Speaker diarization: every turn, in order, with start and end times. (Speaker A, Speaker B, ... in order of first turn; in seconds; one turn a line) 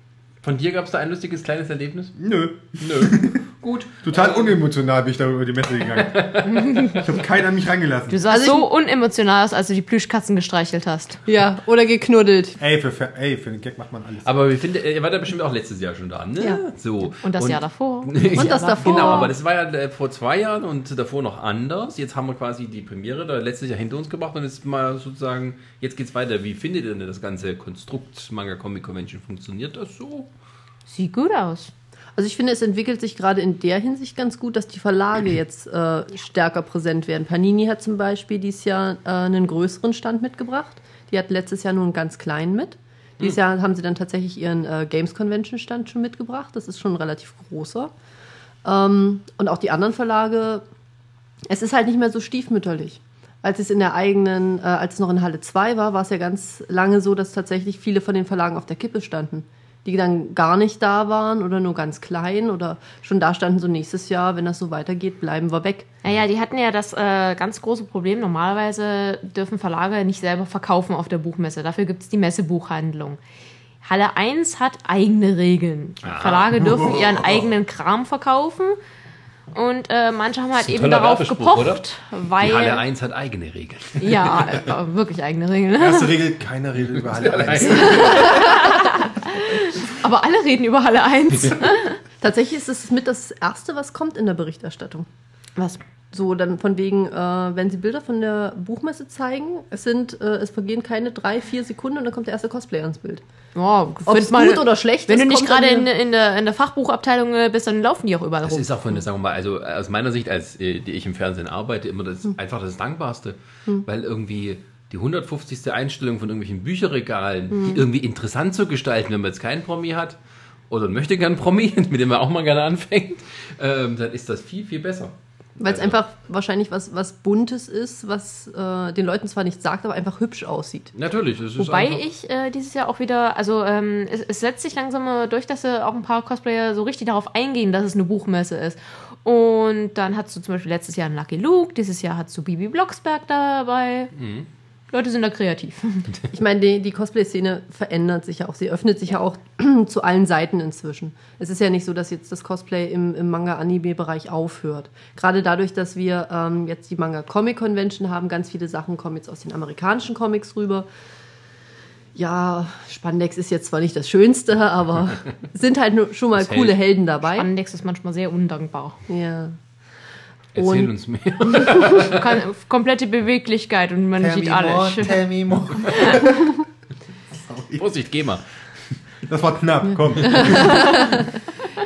Speaker A: 0.4-2.1
Speaker B: 2.2-3.4
Speaker A: 2.8-4.6
Speaker B: 4.0-8.2
Speaker A: 6.0-7.0
Speaker C: 6.6-6.9
Speaker C: 8.1-11.2
Speaker D: 8.3-8.7
Speaker D: 11.2-12.6
Speaker B: 12.6-14.3
Speaker A: 14.2-30.3
Speaker C: 17.2-19.3
Speaker D: 18.3-19.3
Speaker C: 30.9-31.7
Speaker D: 32.1-47.9
Speaker D: 48.6-50.6
Speaker D: 51.5-65.9
Speaker C: 66.0-73.2
Speaker C: 73.8-78.8
Speaker A: 76.0-77.1
Speaker B: 76.6-77.1
Speaker C: 79.5-82.8
Speaker A: 80.6-81.8
Speaker A: 82.4-84.7
Speaker C: 84.0-86.2
Speaker B: 85.8-88.5
Speaker A: 86.8-88.7
Speaker C: 87.7-92.0
Speaker D: 92.2-95.1
Speaker D: 96.1-103.2
Speaker C: 103.5-108.8
Speaker D: 104.0-105.9
Speaker A: 108.4-120.2
Speaker A: 120.7-126.0
Speaker D: 125.6-130.9
Speaker A: 130.9-132.0
Speaker C: 131.6-144.1
Speaker A: 144.2-144.5
Speaker C: 144.9-146.1
Speaker D: 146.3-160.9
Speaker D: 162.1-167.5
Speaker A: 166.3-166.8
Speaker C: 167.3-169.0
Speaker D: 169.1-169.6
Speaker A: 170.5-172.3
Speaker D: 170.6-170.9
Speaker C: 171.9-175.2
Speaker B: 174.2-176.6
Speaker B: 177.5-177.9
Speaker A: 177.7-178.4
Speaker B: 179.2-181.1
Speaker D: 180.3-181.2